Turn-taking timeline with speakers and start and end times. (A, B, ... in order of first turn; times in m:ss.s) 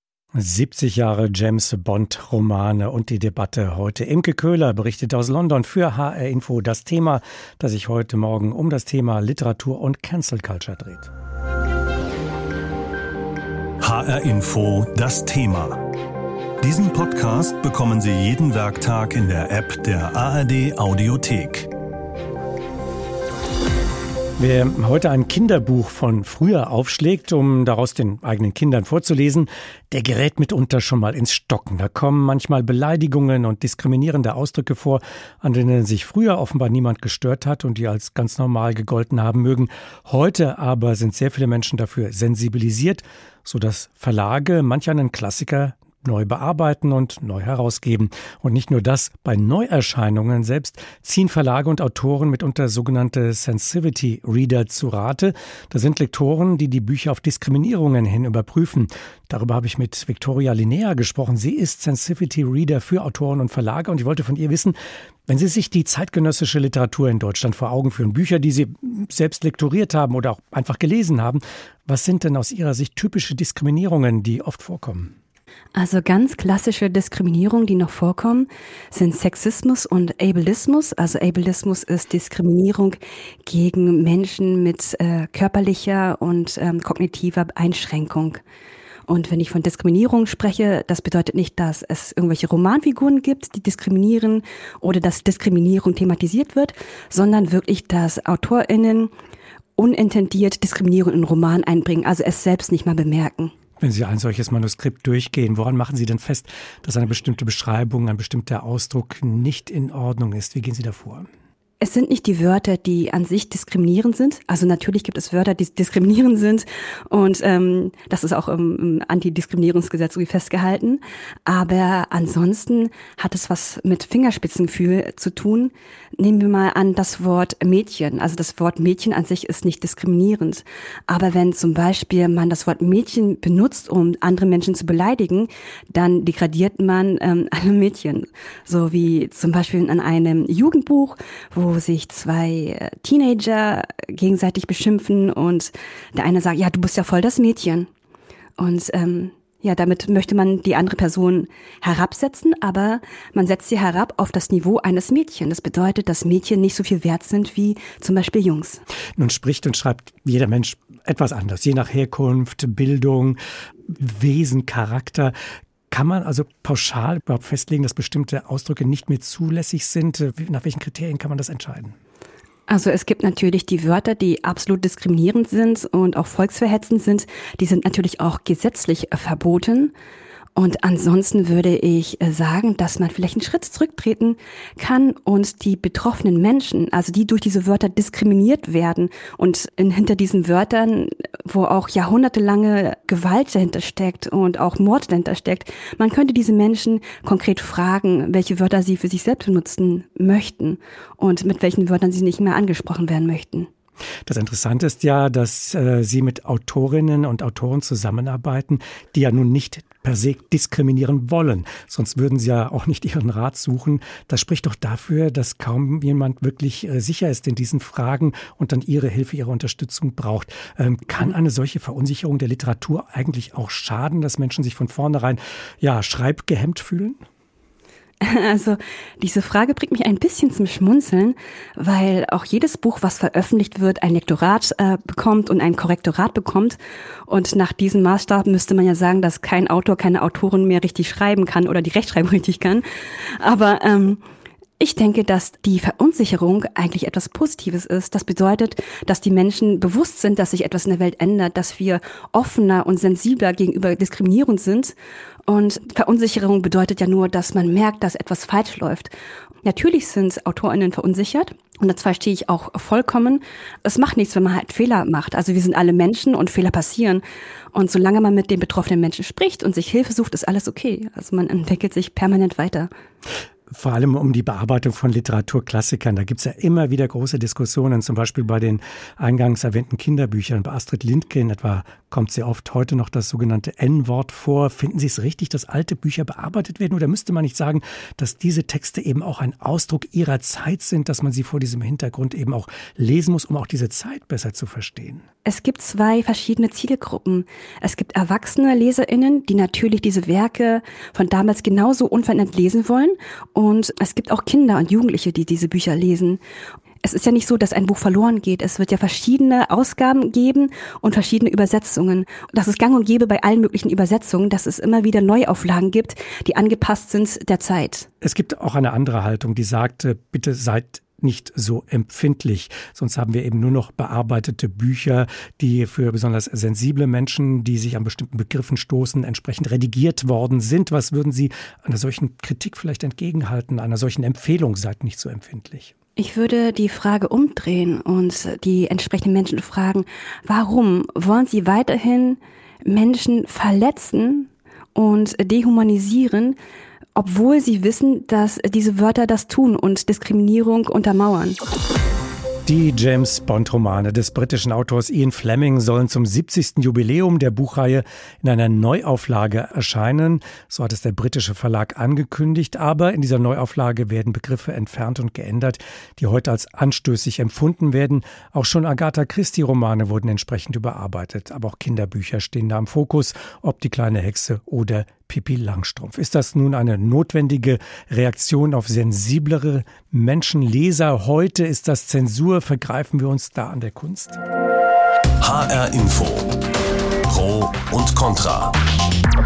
0:00.4-0:11.1 A
0:13.8-0:15.8 B
0:16.6-0:21.7 B
0:24.4-1:15.1 A
1:15.8-1:28.4 C
1:29.1-1:39.1 C
1:39.8-1:43.5 C
1:43.8-1:51.3 A
1:51.8-2:27.9 C
2:28.6-2:38.8 C
2:39.2-2:45.3 A
2:45.9-2:51.9 A
2:52.7-2:59.9 C
3:00.5-3:23.7 C
3:24.2-3:47.2 A
3:48.2-4:04.2 C
4:04.8-4:19.1 C
4:19.6-4:32.9 C
4:33.7-4:55.2 A
4:55.4-5:06.4 C
5:07.0-5:18.1 C
5:18.2-5:35.9 A
5:36.2-5:46.6 C
5:47.1-5:51.6 C
5:52.6-6:24.4 A
6:25.4-6:26.5 B
6:27.3-6:28.7 B